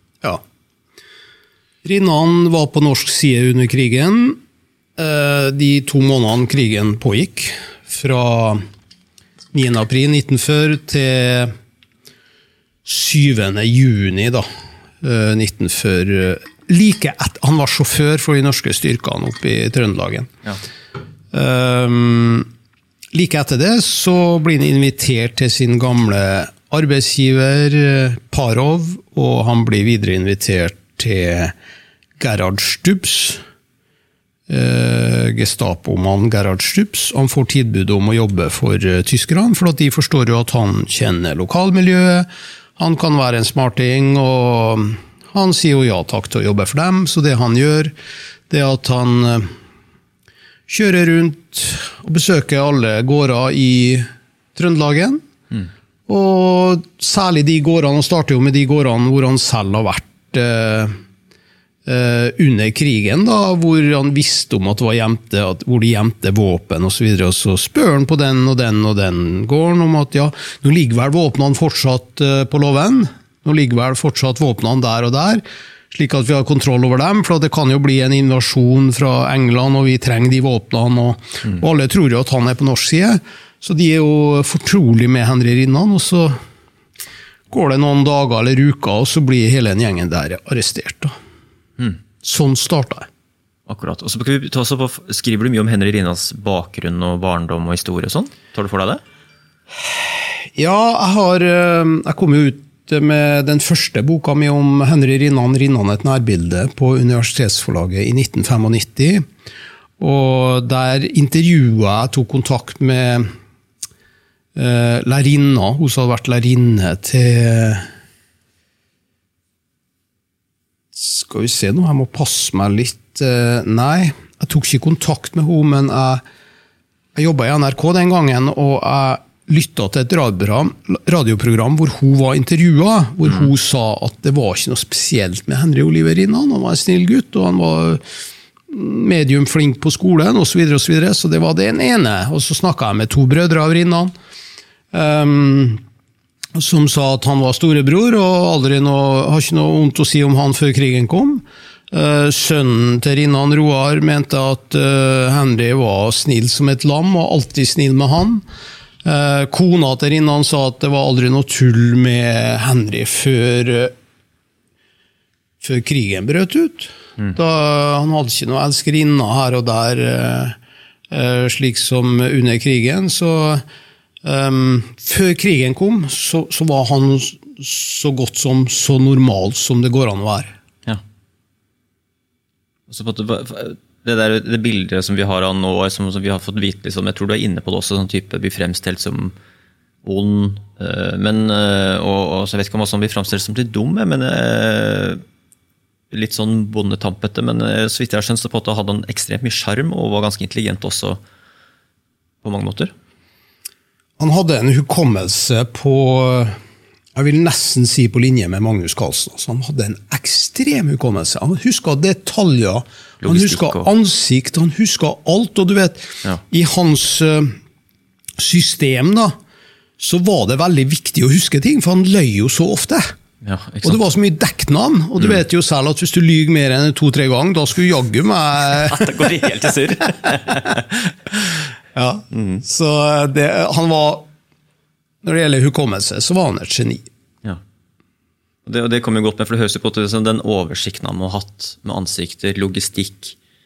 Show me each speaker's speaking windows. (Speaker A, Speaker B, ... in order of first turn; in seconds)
Speaker A: 1.8-4.4, 5.0-8.6, 9.5-11.5, 12.8-14.4, 15.0-20.3, 21.3-22.5, 23.1-31.6, 32.2-33.4, 34.5-47.9, 48.5-49.5, 50.7-55.2, 56.1-60.9, 61.9-86.3, 87.5-91.1, 92.2-93.1, 100.1-109.2, 110.0-113.3, 114.5-117.8, 120.9-126.2, 127.2-138.0, 138.7-144.1, 144.9-145.8, 146.6-158.5, 159.0-163.9, 165.6-170.6, 171.1-173.6, 174.2-180.5, 204.2-206.6, 207.2-217.6, 218.4-219.3, 220.0-223.1, 223.8-229.4, 230.2-230.5, 231.9-234.3, 235.2-237.0
Speaker B: 93.7-99.0, 182.9-189.3, 190.0-195.2, 196.1-201.2, 202.4-202.9, 213.2-213.9, 223.4-224.0, 228.7-231.1, 232.3-232.6, 238.7-243.4